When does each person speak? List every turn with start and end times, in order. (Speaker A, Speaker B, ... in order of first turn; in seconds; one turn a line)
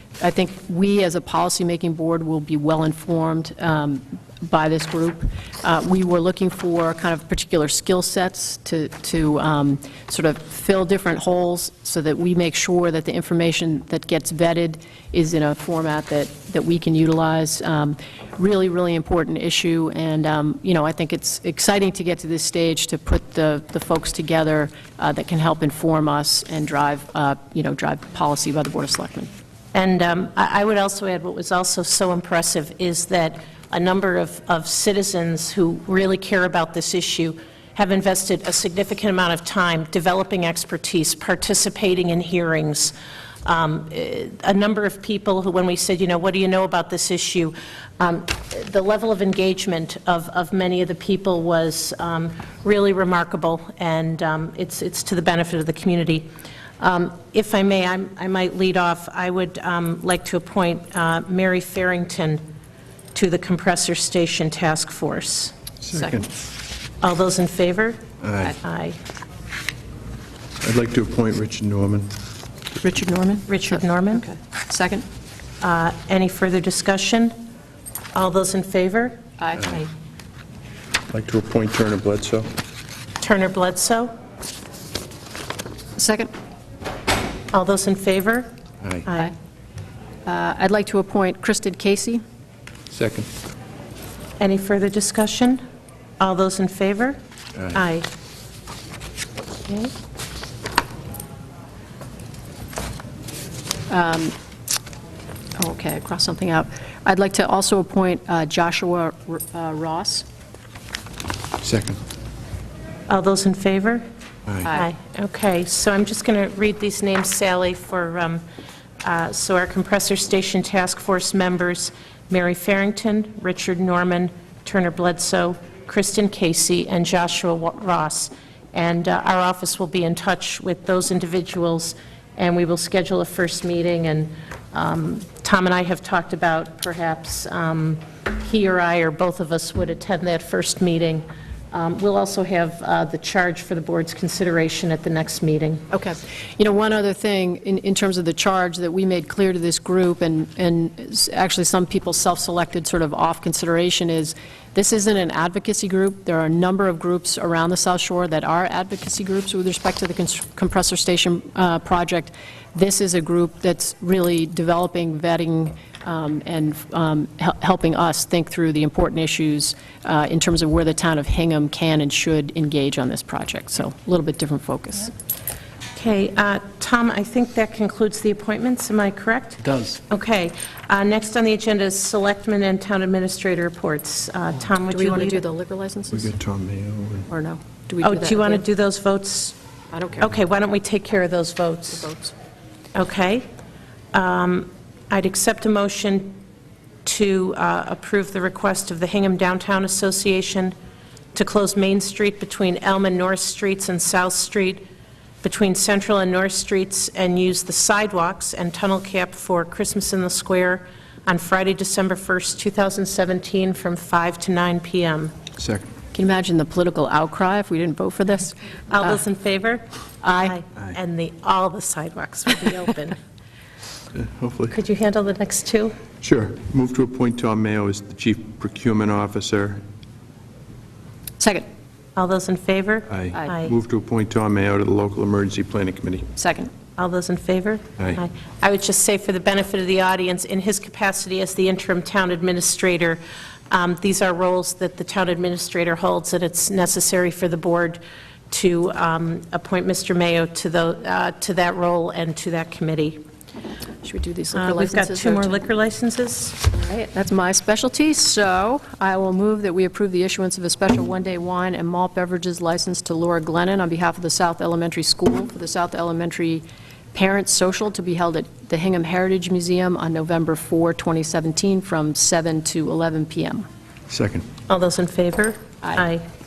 Speaker A: 0.2-29.3
Speaker B: 29.7-56.3
Speaker B: 56.8-62.5
Speaker B: 63.1-65.5
Speaker C: 65.8-66.3
Speaker A: 66.0-66.3
Speaker B: 67.0-68.0
Speaker C: 68.2-68.6
Speaker B: 68.6-69.0
Speaker C: 70.6-72.1
Speaker A: 72.8-75.1
Speaker B: 73.5-74.2
Speaker B: 75.6-77.4
Speaker B: 78.2-79.2
Speaker A: 79.4-79.9
Speaker C: 81.1-82.5
Speaker B: 83.2-84.2
Speaker A: 86.0-86.3
Speaker B: 87.5-89.3
Speaker A: 90.3-92.2
Speaker C: 92.9-93.3
Speaker B: 94.4-95.6
Speaker B: 96.2-97.2
Speaker B: 97.7-98.1
Speaker A: 103.9-104.3
Speaker A: 105.6-110.3
Speaker C: 111.6-112.0
Speaker B: 113.1-114.1
Speaker A: 114.6-114.9
Speaker B: 114.7-118.4
Speaker B: 119.0-145.9
Speaker A: 145.9-175.1
Speaker B: 176.0-185.4
Speaker C: 179.7-180.0
Speaker A: 184.9-186.3
Speaker C: 186.1-187.3
Speaker A: 187.3-188.7
Speaker B: 188.0-189.6
Speaker A: 189.9-190.3
Speaker B: 190.2-192.1
Speaker A: 191.9-192.3
Speaker B: 192.9-193.5
Speaker B: 194.1-196.4
Speaker B: 197.1-200.8
Speaker B: 201.3-204.9
Speaker B: 205.4-215.4
Speaker C: 215.6-215.9
Speaker A: 216.1-219.2
Speaker B: 218.9-223.2
Speaker A: 220.2-220.6
Speaker C: 224.1-224.8
Speaker B: 224.7-226.0
Speaker C: 226.2-229.8
Speaker A: 231.4-231.7
Speaker B: 232.2-233.8
Speaker C: 233.1-236.3
Speaker A: 236.4-236.7
Speaker B: 237.0-253.2
Speaker A: 254.0-255.6
Speaker B: 254.5-256.6
Speaker A: 256.7-273.7
Speaker C: 274.1-274.5
Speaker B: 274.7-276.2